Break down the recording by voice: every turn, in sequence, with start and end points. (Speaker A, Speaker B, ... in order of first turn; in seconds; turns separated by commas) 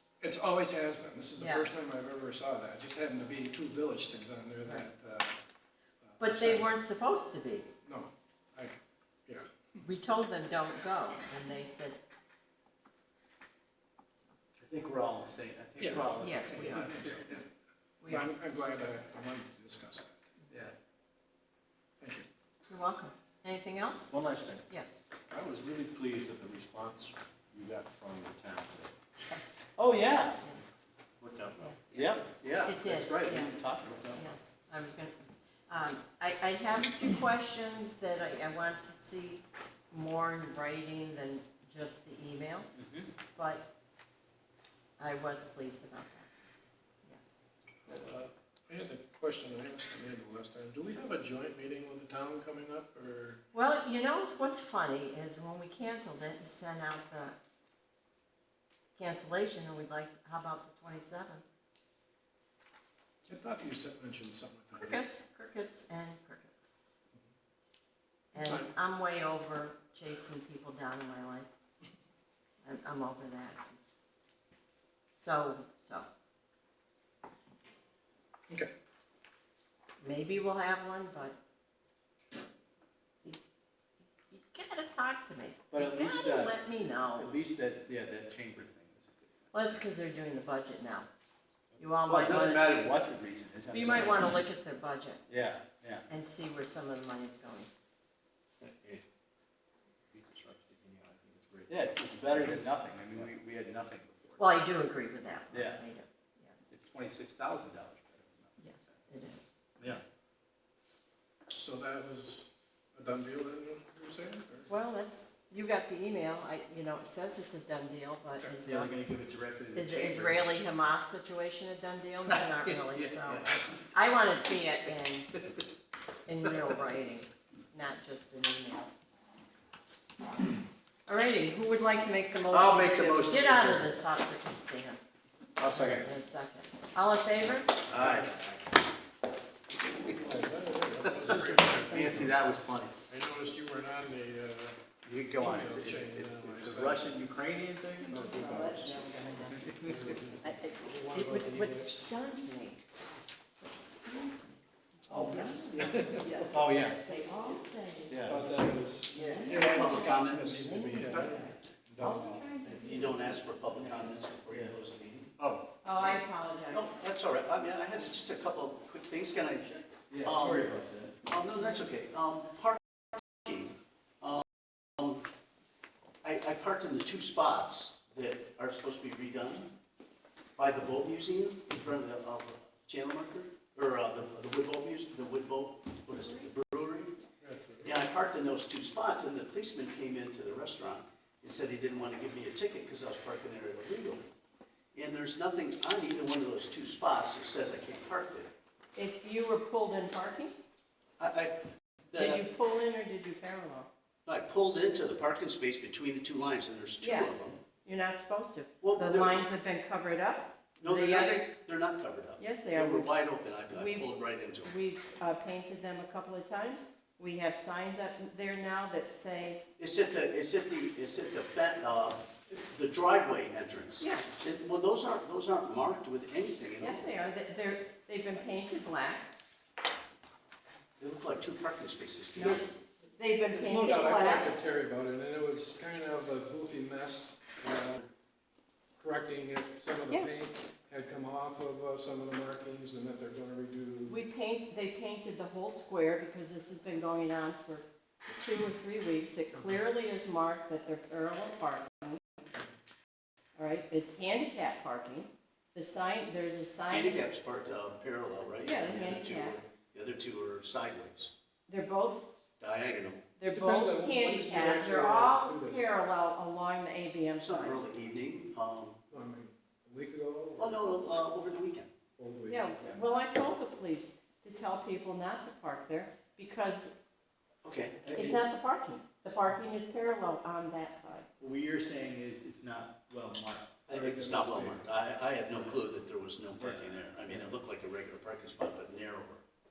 Speaker A: 0.2-5.4, Speaker B: 1.4-1.7, Speaker A: 6.1-6.7, Speaker B: 6.2-7.7, Speaker A: 7.8-8.7, Speaker A: 9.3-9.5, Speaker B: 9.8-12.0, Speaker C: 14.6-17.4, Speaker A: 15.8-17.4, Speaker B: 16.1-17.1, Speaker B: 18.0-18.3, Speaker A: 18.0-20.1, Speaker A: 22.0-22.2, Speaker B: 22.7-24.1, Speaker D: 24.1-24.6, Speaker B: 24.7-25.0, Speaker D: 25.3-28.9, Speaker B: 29.2-29.4, Speaker C: 29.8-30.4, Speaker D: 31.2-32.1, Speaker C: 31.9-34.2, Speaker B: 32.6-42.7, Speaker C: 42.8-43.1, Speaker B: 43.3-43.7, Speaker B: 45.0-46.3, Speaker B: 47.0-47.4, Speaker A: 47.9-53.4, Speaker B: 53.5-57.4, Speaker B: 59.0-61.4, Speaker A: 63.3-65.0, Speaker B: 64.7-66.9, Speaker B: 68.3-71.5, Speaker A: 68.3-68.7, Speaker B: 72.6-73.7, Speaker B: 75.1-76.1, Speaker B: 80.0-81.4, Speaker B: 84.3-87.3, Speaker C: 85.7-86.6, Speaker C: 87.1-89.5, Speaker B: 89.5-91.1, Speaker B: 91.8-92.8, Speaker C: 92.0-94.4, Speaker B: 93.7-95.2, Speaker C: 95.3-96.0, Speaker B: 96.1-97.7, Speaker D: 98.6-99.0, Speaker D: 100.1-102.5, Speaker C: 101.7-104.5, Speaker B: 104.4-106.7, Speaker C: 105.5-105.8, Speaker C: 106.7-108.7, Speaker B: 108.6-110.1, Speaker A: 111.5-114.7, Speaker B: 114.7-118.9, Speaker C: 118.6-120.5, Speaker B: 119.7-125.3, Speaker C: 122.3-123.6, Speaker B: 126.3-128.9, Speaker B: 131.1-135.0, Speaker C: 132.5-134.0, Speaker C: 135.6-136.1, Speaker B: 135.7-137.8, Speaker A: 135.7-136.1, Speaker C: 137.9-138.6, Speaker A: 140.1-144.8, Speaker C: 141.0-142.9, Speaker C: 145.0-148.7, Speaker A: 145.4-147.2, Speaker B: 148.0-149.7, Speaker A: 148.1-152.0, Speaker C: 149.5-150.2, Speaker B: 150.4-152.8, Speaker B: 153.6-158.4, Speaker C: 155.1-155.7, Speaker A: 155.8-156.2, Speaker C: 156.4-157.1, Speaker C: 158.1-158.5, Speaker A: 158.2-162.4, Speaker B: 159.1-161.5, Speaker E: 159.5-161.5, Speaker B: 162.0-163.4, Speaker E: 162.7-165.3, Speaker C: 163.7-164.7, Speaker B: 165.8-167.0, Speaker E: 166.1-170.7, Speaker C: 170.1-171.2, Speaker E: 171.2-175.2, Speaker E: 176.2-179.7, Speaker E: 180.6-187.2, Speaker A: 187.4-187.9, Speaker E: 187.8-194.3, Speaker E: 194.9-198.5, Speaker B: 198.9-200.5, Speaker E: 201.2-201.6, Speaker E: 202.1-202.4, Speaker B: 202.2-203.9, Speaker E: 204.2-207.6, Speaker B: 207.0-211.5, Speaker E: 208.8-209.4, Speaker E: 210.8-214.7, Speaker B: 212.4-219.6, Speaker E: 219.8-227.0, Speaker B: 224.0-224.3, Speaker B: 226.8-229.3, Speaker E: 231.0-232.6, Speaker B: 232.3-232.6, Speaker B: 233.2-234.5, Speaker A: 233.5-238.1, Speaker A: 239.0-244.2, Speaker B: 244.1-252.2, Speaker B: 253.6-257.3, Speaker E: 256.9-261.3, Speaker B: 258.6-259.6, Speaker B: 261.7-262.3, Speaker E: 262.6-263.2, Speaker B: 263.4-267.8, Speaker A: 263.5-265.9, Speaker E: 267.4-269.0, Speaker A: 269.1-271.0, Speaker E: 270.6-271.9, Speaker A: 272.2-272.7, Speaker B: 272.5-276.9, Speaker E: 277.6-278.2, Speaker C: 278.0-278.4, Speaker B: 278.1-281.3, Speaker C: 281.4-283.8, Speaker E: 283.9-289.4, Speaker A: 283.9-284.8, Speaker C: 286.6-287.5